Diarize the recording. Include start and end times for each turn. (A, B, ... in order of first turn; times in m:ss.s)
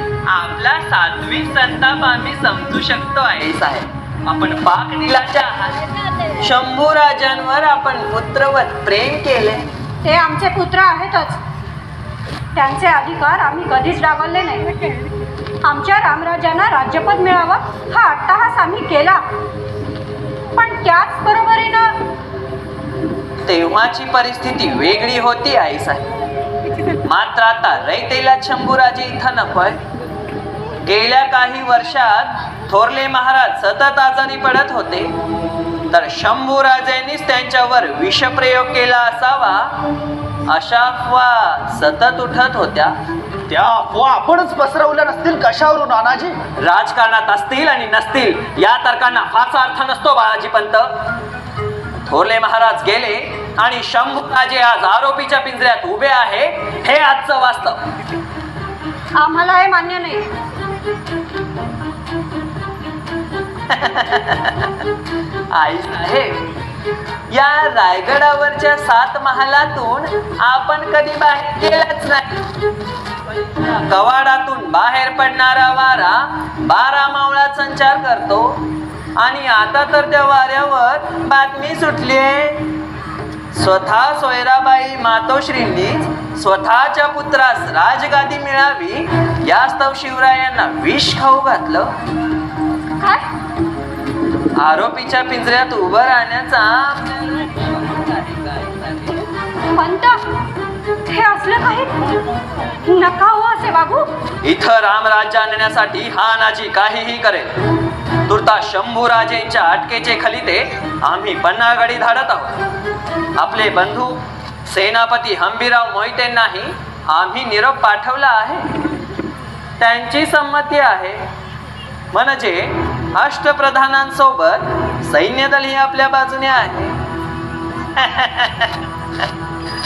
0:00.3-0:05.8 A
0:06.4-0:09.7 A
0:10.0-0:11.4 B
0:12.6-0:14.8 B
0:15.6-0:19.2 B
0:20.6-0:21.9 B
0:23.4-0:26.1 A
0:27.0-0:29.8 A
0:30.8-0:35.1 A
0:35.9-0:39.8 A
0:40.5-0:42.9 A
0:43.5-0:46.4 C
0:46.6-0:51.0 A
0:52.0-0:57.8 A
0:59.2-1:00.3 B
1:03.7-1:04.9 A
1:05.5-1:06.6 A
1:07.3-1:12.4 A
1:13.2-1:18.6 A
1:19.2-1:22.7 A
1:23.5-1:31.9 A
1:34.6-1:39.3 A
1:39.8-1:40.2 B
1:41.1-1:42.1 B
1:42.8-1:44.1 B
1:44.4-1:47.5 A
1:48.3-1:52.6 A
1:53.4-1:58.7 A
1:59.8-2:01.3 A
2:02.1-2:07.0 A
2:07.9-2:09.3 A